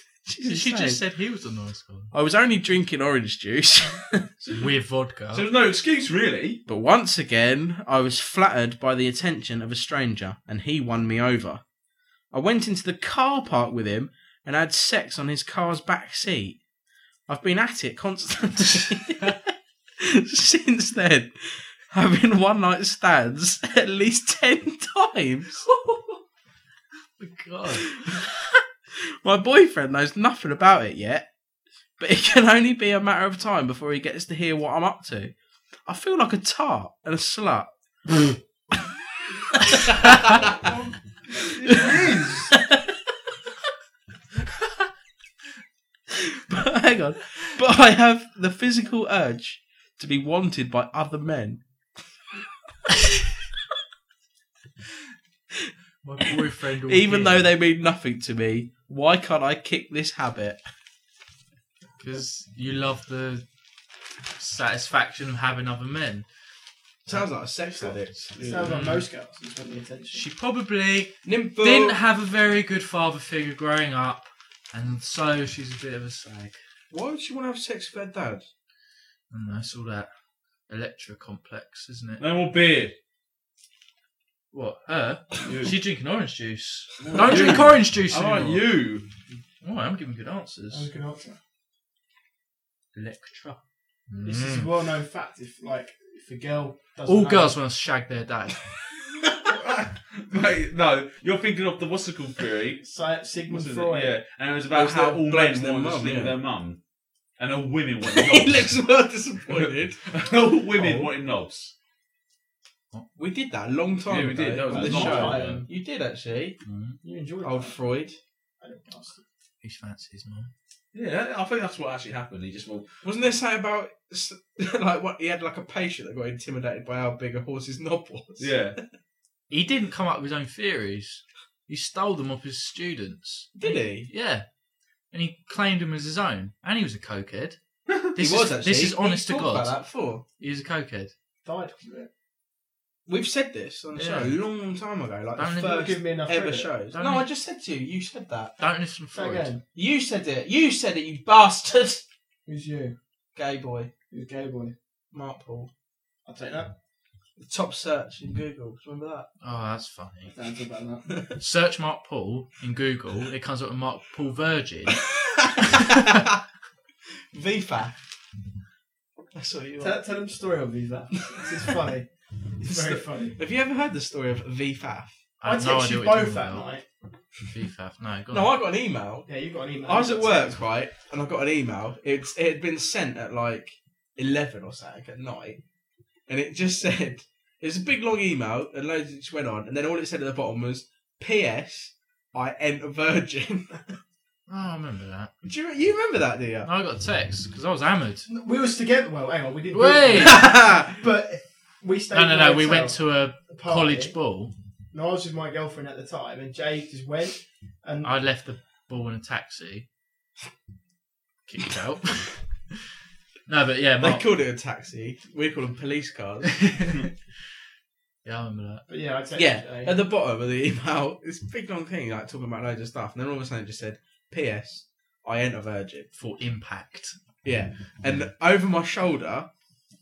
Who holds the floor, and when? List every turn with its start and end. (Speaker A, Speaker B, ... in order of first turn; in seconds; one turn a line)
Speaker A: 0.2-1.0
Speaker B: 0.4-2.1
Speaker A: 2.1-4.2
Speaker B: 4.5-5.5
Speaker C: 5.3-6.6
Speaker A: 6.7-11.6
Speaker A: 12.3-16.6
Speaker A: 17.3-25.6
Speaker B: 25.7-26.2
Speaker B: 27.2-28.1
Speaker A: 27.7-28.1
Speaker A: 29.2-31.3
Speaker A: 32.0-35.3
Speaker A: 35.9-38.2
Speaker A: 39.7-40.4
Speaker C: 41.4-42.5
Speaker A: 42.5-42.9
Speaker A: 46.3-51.6
Speaker B: 56.0-57.5
Speaker A: 56.8-60.6
Speaker B: 62.0-63.4
Speaker B: 64.3-66.2
Speaker A: 67.0-68.3
Speaker D: 67.6-70.2
Speaker C: 68.4-68.7
Speaker B: 68.4-69.0
Speaker B: 70.1-76.6
Speaker A: 71.2-72.0
Speaker A: 76.9-78.4
Speaker B: 79.3-80.1
Speaker B: 80.7-82.2
Speaker C: 82.2-82.9
Speaker B: 84.5-88.7
Speaker C: 85.4-85.8
Speaker C: 87.0-89.0
Speaker A: 87.1-87.7
Speaker B: 89.6-90.9
Speaker D: 90.7-91.4
Speaker B: 92.9-94.7
Speaker D: 94.2-97.6
Speaker B: 97.0-98.6
Speaker C: 99.5-102.8
Speaker D: 102.8-104.1
Speaker C: 103.5-106.8
Speaker A: 104.7-106.4
Speaker C: 107.4-108.8
Speaker A: 108.0-110.0
Speaker C: 109.5-111.7
Speaker B: 110.8-111.1
Speaker A: 113.2-116.6
Speaker C: 114.1-115.7
Speaker D: 114.7-115.7
Speaker B: 116.6-117.0
Speaker D: 117.0-117.8
Speaker A: 117.4-118.2
Speaker D: 118.6-119.2
Speaker B: 119.6-120.5
Speaker C: 120.9-122.9
Speaker A: 123.0-128.8
Speaker C: 128.4-128.8
Speaker B: 129.5-134.4
Speaker A: 133.5-134.1
Speaker B: 135.1-137.6
Speaker B: 138.1-139.8
Speaker A: 138.2-140.2
Speaker B: 140.4-141.1
Speaker D: 141.4-142.1
Speaker A: 143.1-148.6
Speaker B: 143.9-144.4
Speaker B: 145.4-145.9
Speaker D: 145.7-146.7
Speaker B: 146.9-147.3
Speaker B: 148.6-149.5
Speaker D: 149.1-149.6
Speaker A: 149.7-152.0
Speaker D: 152.4-152.9
Speaker A: 153.3-153.9
Speaker D: 154.1-154.7
Speaker A: 155.1-155.7
Speaker D: 156.2-156.7
Speaker A: 157.4-159.3
Speaker B: 159.4-160.3
Speaker D: 160.3-161.1
Speaker B: 161.4-165.0
Speaker A: 165.4-166.3
Speaker A: 167.3-168.0
Speaker A: 169.3-170.0
Speaker D: 169.8-173.4
Speaker A: 172.6-175.1
Speaker B: 175.4-176.7
Speaker D: 175.4-176.8
Speaker B: 177.4-178.5
Speaker A: 178.3-179.3
Speaker D: 179.3-180.6
Speaker A: 179.8-185.6
Speaker A: 186.3-193.9
Speaker B: 194.5-195.3
Speaker A: 195.4-196.7
Speaker B: 196.6-198.3
Speaker D: 198.3-204.1
Speaker B: 199.7-200.4
Speaker A: 200.2-201.0
Speaker B: 202.1-204.5
Speaker D: 204.9-208.1
Speaker B: 208.0-209.8
Speaker B: 211.4-212.4
Speaker B: 213.5-214.2
Speaker A: 214.0-216.9
Speaker B: 216.6-217.0
Speaker B: 218.2-218.8
Speaker D: 218.9-220.0
Speaker A: 219.3-226.1
Speaker B: 226.1-227.2
Speaker A: 227.4-229.5
Speaker B: 228.0-228.3